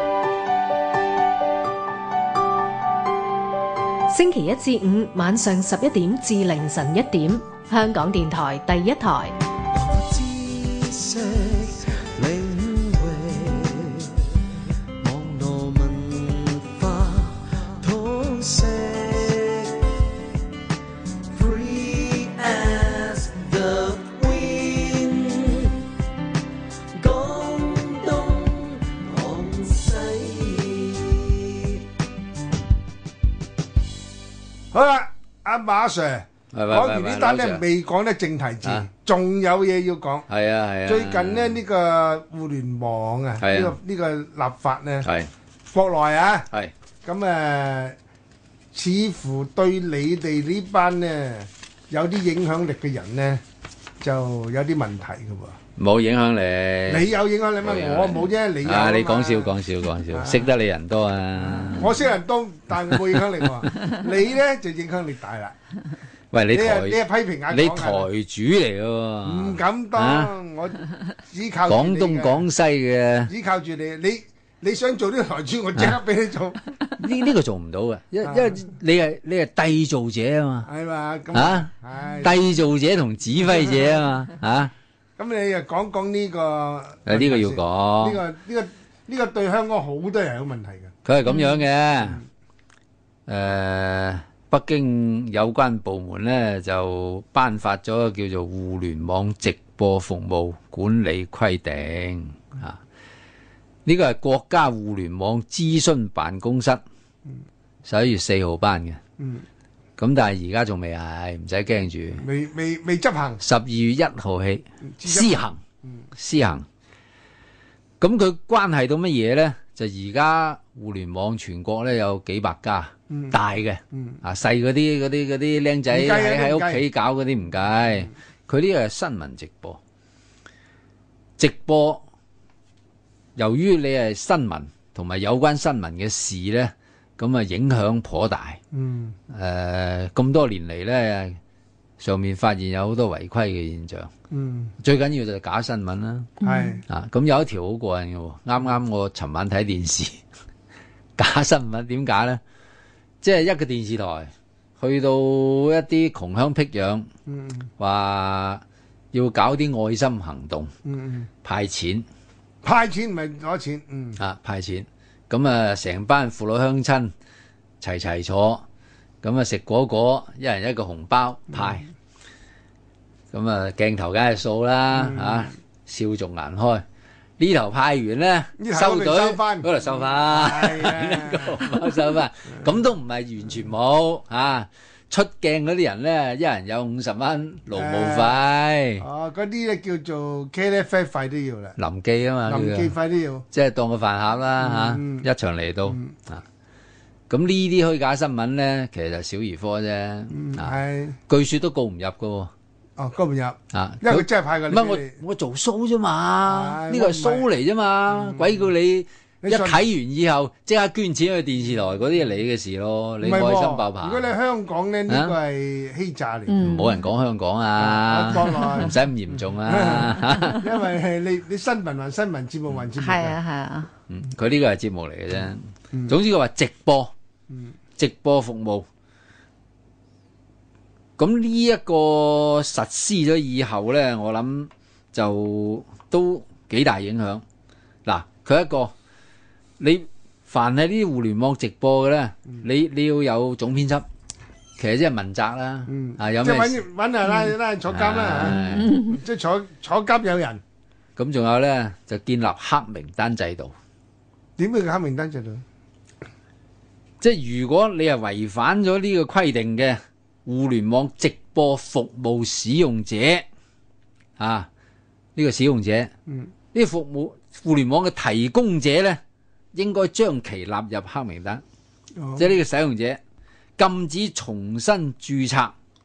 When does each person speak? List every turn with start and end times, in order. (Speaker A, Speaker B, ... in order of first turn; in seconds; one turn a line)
Speaker A: 4.1-9.3
Speaker B: 9.7-14.1
Speaker B: 15.0-19.9
Speaker B: 21.3-25.8
Speaker B: 26.9-31.8
Speaker C: 34.7-40.2
Speaker D: 36.5-37.6
Speaker D: 40.3-41.6
Speaker C: 40.9-45.1
Speaker D: 43.4-43.8
Speaker D: 45.0-45.3
Speaker C: 45.7-46.5
Speaker C: 47.0-48.0
Speaker C: 48.7-53.4
Speaker C: 54.0-55.6
Speaker D: 55.8-57.1
Speaker C: 56.9-59.5
Speaker D: 57.6-62.0
Speaker C: 60.1-60.5
Speaker C: 61.5-65.5
Speaker D: 62.9-63.5
Speaker D: 66.3-67.0
Speaker C: 66.5-68.1
Speaker D: 67.5-70.3
Speaker C: 69.2-72.4
Speaker D: 71.7-73.3
Speaker C: 73.3-76.7
Speaker D: 77.0-80.7
Speaker C: 78.2-78.6
Speaker C: 80.7-82.4
Speaker D: 81.3-81.7
Speaker D: 82.2-84.7
Speaker C: 85.2-90.9
Speaker D: 87.0-88.2
Speaker D: 91.0-92.2
Speaker E: 91.3-91.6
Speaker D: 93.3-102.8
Speaker D: 103.8-106.8
Speaker D: 107.8-109.0
Speaker C: 109.2-109.4
Speaker D: 110.0-112.2
Speaker C: 112.2-113.4
Speaker D: 113.4-115.6
Speaker C: 114.8-116.0
Speaker D: 116.1-116.7
Speaker D: 118.0-129.8
Speaker C: 123.1-123.4
Speaker C: 123.9-124.2
Speaker C: 125.9-126.8
Speaker D: 131.4-132.0
Speaker D: 133.3-138.6
Speaker C: 138.7-139.2
Speaker D: 139.3-141.4
Speaker D: 142.0-144.1
Speaker C: 144.3-144.7
Speaker D: 144.8-146.3
Speaker E: 146.4-146.8
Speaker C: 146.4-146.8
Speaker D: 146.9-150.2
Speaker D: 151.2-152.4
Speaker D: 153.2-157.1
Speaker C: 157.3-157.7
Speaker D: 157.8-158.6
Speaker D: 159.1-160.7
Speaker C: 160.8-161.3
Speaker D: 161.4-162.1
Speaker C: 162.6-164.2
Speaker D: 164.2-167.1
Speaker D: 167.8-168.6
Speaker D: 169.2-171.8
Speaker D: 173.3-176.8
Speaker C: 174.9-175.5
Speaker D: 177.4-189.0
Speaker C: 178.6-181.7
Speaker C: 187.7-188.4
Speaker C: 189.0-191.8
Speaker D: 191.8-192.9
Speaker C: 192.4-193.4
Speaker D: 193.5-196.4
Speaker C: 194.6-195.3
Speaker D: 197.3-200.8
Speaker C: 200.3-201.2
Speaker D: 201.3-202.5
Speaker C: 203.0-205.2
Speaker D: 203.7-214.3
Speaker C: 206.4-207.5
Speaker C: 208.1-208.6
Speaker C: 209.4-209.8
Speaker C: 213.2-216.6
Speaker D: 215.1-215.3
Speaker E: 216.5-217.1
Speaker D: 216.6-220.7
Speaker C: 217.8-218.9
Speaker C: 219.6-223.4
Speaker E: 223.0-223.9
Speaker D: 224.1-227.1
Speaker D: 228.0-228.9
Speaker D: 231.2-237.4
Speaker D: 238.1-238.9
Speaker D: 239.8-244.1
Speaker D: 244.8-246.8
Speaker C: 245.9-250.6
Speaker E: 247.3-247.5
Speaker D: 247.8-248.9
Speaker E: 248.4-249.2
Speaker D: 251.2-253.7
Speaker C: 254.6-255.6
Speaker D: 257.2-263.4
Speaker D: 264.4-264.7
Speaker D: 265.4-266.1
Speaker D: 266.7-269.2
Speaker D: 269.7-271.6
Speaker C: 272.1-272.5
Speaker D: 272.4-273.2
Speaker D: 273.8-275.7